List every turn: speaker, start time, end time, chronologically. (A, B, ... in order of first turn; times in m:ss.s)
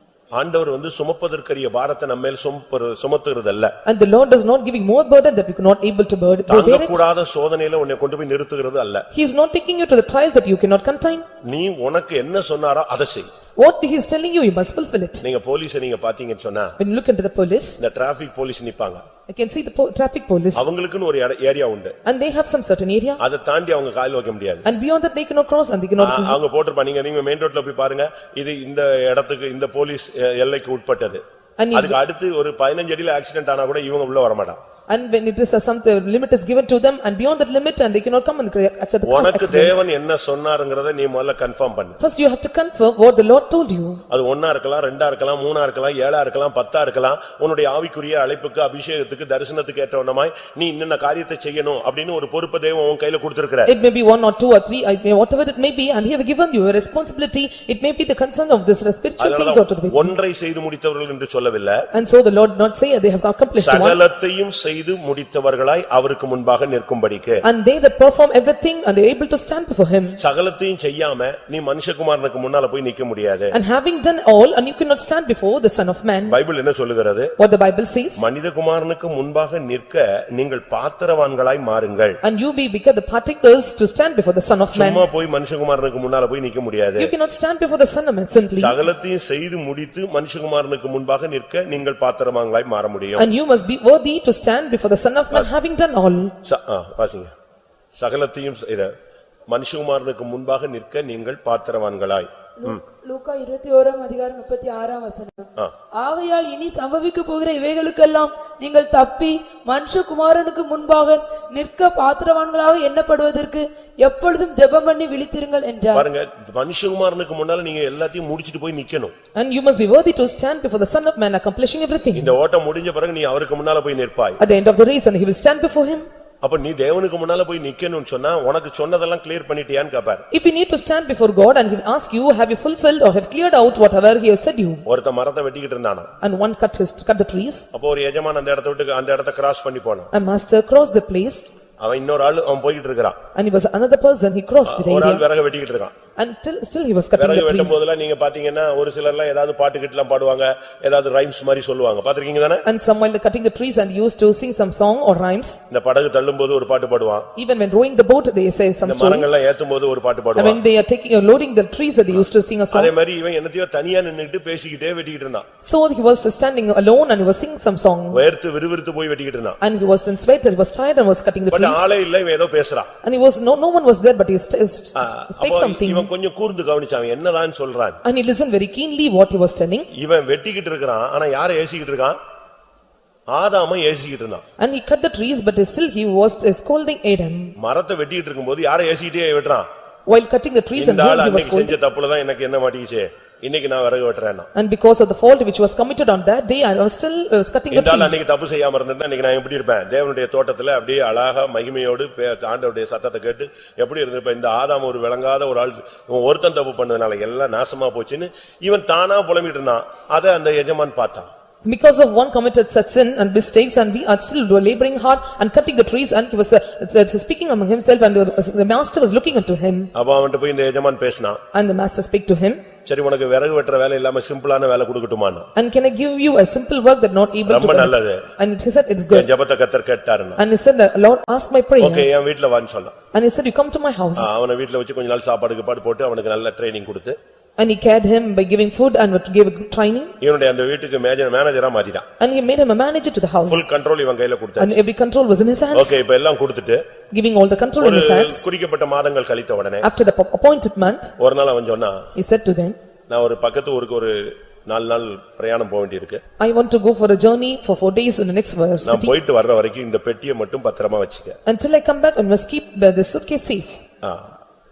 0:00.3-0:03.7 A
0:03.8-0:07.0 B
0:06.5-0:09.0 A
0:09.1-0:11.3 B
0:11.4-0:13.3 A
0:13.6-0:15.2 B
0:15.2-0:16.8 A
0:16.8-0:17.8 B
0:17.8-0:19.0 A
0:19.3-0:20.7 B
0:20.5-0:21.9 A
0:22.0-0:23.2 B
0:23.2-0:24.6 A
0:24.6-0:26.4 B
0:26.0-0:31.2 A
0:31.6-0:32.0 B
0:31.7-0:34.6 A
0:34.9-0:39.8 B
0:39.0-0:42.0 A
0:42.0-0:44.0 B
0:44.1-0:53.7 A
0:53.6-1:00.1 B
0:59.2-1:01.8 A
1:01.9-1:04.0 B
1:03.5-1:07.4 A
1:07.4-1:10.2 B
1:10.2-1:13.5 A
1:13.5-1:16.4 B
1:16.3-1:17.3 A
1:17.4-1:18.2 B
1:18.2-1:22.2 A
1:22.2-1:25.0 B
1:24.7-1:27.1 A
1:27.0-1:28.8 B
1:28.6-1:33.3 A
1:33.2-1:36.3 B
1:36.4-1:37.3 A
1:38.0-1:38.9 A
1:39.5-1:42.8 A
1:42.6-1:56.0 C
1:55.9-1:59.1 A
1:59.4-2:02.3 B
2:02.1-2:04.4 A
2:04.4-2:06.1 B
2:06.4-2:10.2 A
2:10.3-2:14.8 B
2:14.8-2:16.1 A
2:16.2-2:17.7 B
2:17.7-2:20.1 A
2:20.1-2:21.5 B
2:21.8-2:23.2 A
2:23.3-2:25.2 B
2:24.6-2:25.9 A
2:26.2-2:27.8 B
2:27.2-2:32.6 A
2:32.6-2:35.6 B
2:35.7-2:37.3 A
2:37.4-2:39.2 B
2:38.8-2:40.6 A
2:40.4-2:42.9 B
2:42.1-2:45.4 A
2:45.6-2:48.2 B
2:48.1-2:49.6 A
2:49.6-2:51.9 B
2:51.5-2:52.9 A
2:53.0-2:56.1 B
2:54.9-2:58.0 A
2:58.0-2:59.9 B
2:59.9-3:02.2 A
3:03.3-3:04.4 A
3:04.6-3:07.5 B
3:07.6-3:09.7 A
3:10.1-3:11.8 B
3:10.8-3:14.5 A
3:14.5-3:18.2 B
3:17.7-3:31.3 A
3:31.6-3:39.9 B
3:39.9-3:41.4 A
3:41.5-3:42.6 B
3:42.8-3:45.5 A
3:45.6-3:49.3 B
3:47.5-3:48.2 A
3:49.1-3:50.4 A
3:50.4-3:52.1 B
3:51.8-3:52.9 A
3:53.1-3:54.3 B
3:54.2-3:57.2 A
3:57.6-4:00.1 B
4:00.2-4:02.0 A
4:02.2-4:03.7 B
4:03.5-4:04.8 A
4:04.6-4:06.0 B
4:05.7-4:06.8 A
4:07.1-4:08.4 B
4:07.8-4:09.8 A
4:09.8-4:11.1 B
4:11.2-4:12.1 A
4:12.1-4:12.8 B
4:13.1-4:16.2 A
4:16.4-4:19.1 B
4:18.8-4:21.3 A
4:21.4-4:23.8 B
4:24.0-4:24.3 A